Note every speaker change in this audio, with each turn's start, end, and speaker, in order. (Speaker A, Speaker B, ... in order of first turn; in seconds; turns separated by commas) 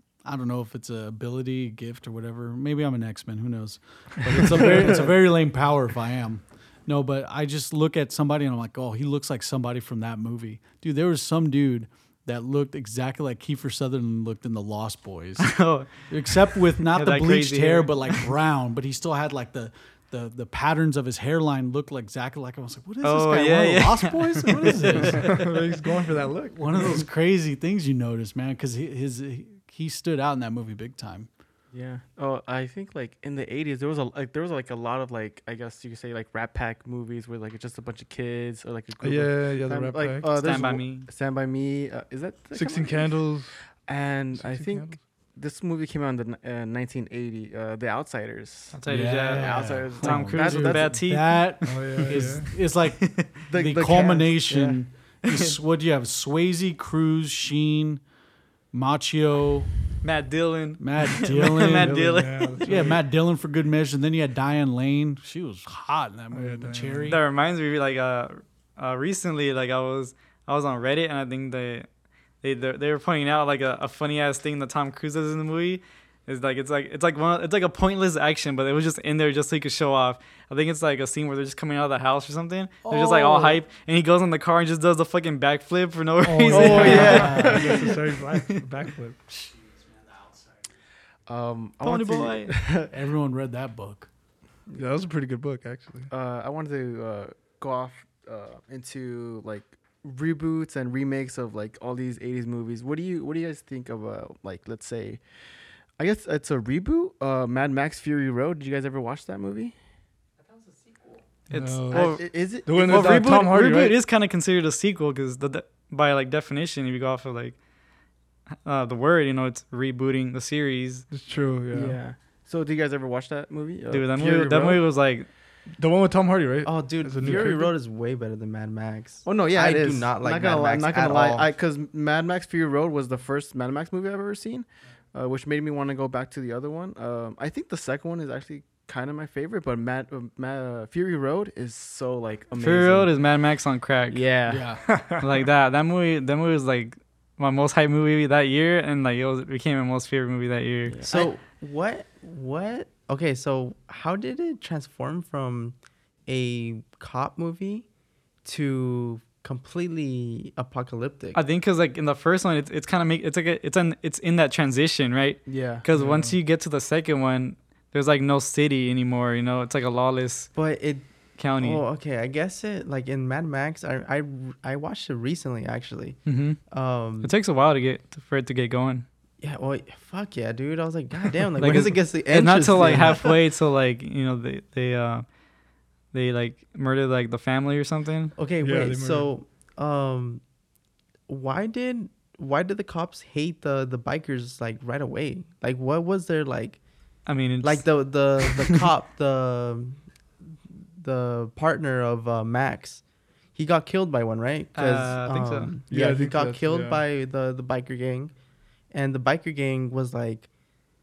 Speaker A: 0.2-25.5, Speaker B: 15.4-18.3, Speaker B: 23.0-25.3, Speaker C: 25.0-27.0, Speaker A: 26.5-31.3, Speaker D: 31.7-48.8, Speaker C: 39.0-40.4, Speaker B: 40.3-41.1, Speaker C: 42.5-43.7, Speaker C: 44.3-45.0, Speaker B: 48.7-51.8, Speaker A: 48.9-58.0, Speaker D: 49.3-51.2, Speaker C: 51.6-52.5, Speaker B: 53.0-53.3, Speaker D: 53.5-54.8, Speaker B: 55.2-55.5, Speaker A: 58.7-59.7, Speaker B: 60.0-62.9, Speaker A: 60.8-67.2, Speaker C: 61.7-63.0, Speaker C: 66.3-67.2, Speaker B: 67.1-71.9, Speaker B: 72.4-87.8, Speaker A: 82.8-83.6, Speaker C: 86.2-89.2, Speaker D: 86.5-87.9, Speaker A: 86.9-87.7, Speaker D: 91.2-92.9, Speaker B: 91.8-92.5, Speaker A: 92.8-94.1, Speaker C: 94.7-96.1, Speaker D: 96.1-105.3, Speaker D: 105.9-109.8, Speaker B: 111.5-117.6, Speaker C: 111.5-114.0, Speaker D: 111.9-112.7, Speaker B: 118.6-121.1, Speaker C: 121.1-122.0, Speaker D: 121.7-124.8, Speaker B: 123.9-125.3, Speaker C: 124.3-124.7, Speaker C: 125.7-127.7, Speaker E: 126.6-131.5, Speaker D: 129.2-143.2, Speaker B: 142.5-151.0, Speaker D: 144.1-144.8, Speaker A: 144.5-144.8, Speaker C: 144.9-145.3, Speaker D: 150.8-151.3, Speaker E: 151.1-157.9, Speaker E: 158.4-161.4, Speaker B: 161.3-170.7, Speaker D: 165.4-165.8, Speaker C: 165.9-166.4, Speaker E: 170.5-177.3, Speaker B: 171.3-171.8, Speaker B: 176.2-179.1, Speaker E: 179.4-183.3, Speaker B: 181.6-185.4, Speaker B: 186.1-188.3, Speaker E: 188.3-190.4, Speaker C: 188.6-189.3, Speaker E: 191.3-196.8, Speaker B: 197.2-197.9, Speaker E: 197.6-200.1, Speaker E: 200.9-208.3, Speaker B: 204.7-205.7, Speaker C: 205.9-207.0, Speaker E: 208.9-210.5